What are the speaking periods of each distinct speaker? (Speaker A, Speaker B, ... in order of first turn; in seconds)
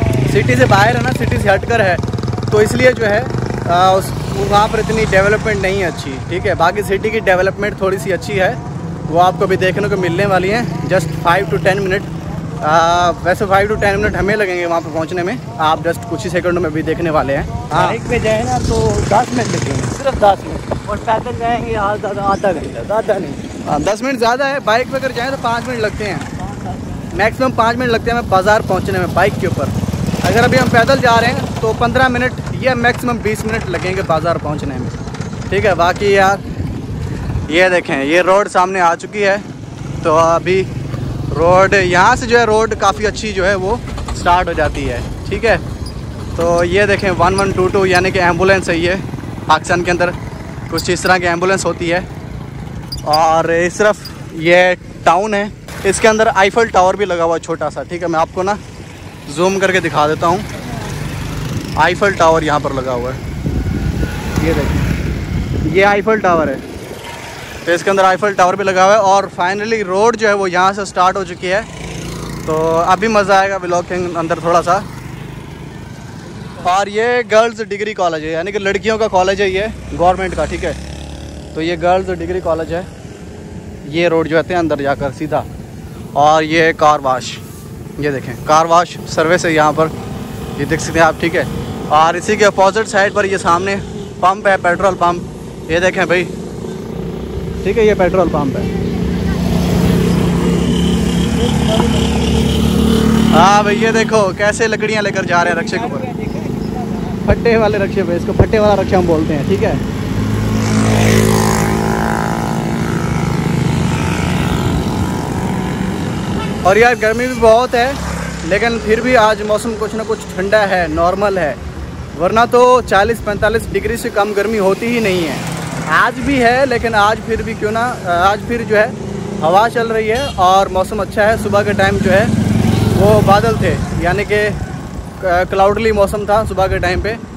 Speaker A: 0.2-18.0, 23.6-26.3, 27.1-35.0, 35.5-36.4, 37.5-39.4, 40.0-40.7, 41.3-45.6, 46.3-50.1, 50.7-52.1, 53.0-58.6, 59.3-60.5, 61.8-63.2, 64.4-64.9, 65.6-66.6, 67.6-71.7, 72.4-74.9, 76.6-80.8, 81.5-82.9, 83.8-85.5, 86.1-87.4, 88.0-89.9, 90.6-96.3, 97.6-98.7, 103.3-106.1, 107.2-109.8, 116.6-121.6, 122.1-132.3, 132.9-134.6, 135.2-137.2
Speaker B: 17.7-23.4, 26.3-27.1, 76.2-76.7, 101.3-102.5, 105.3-107.3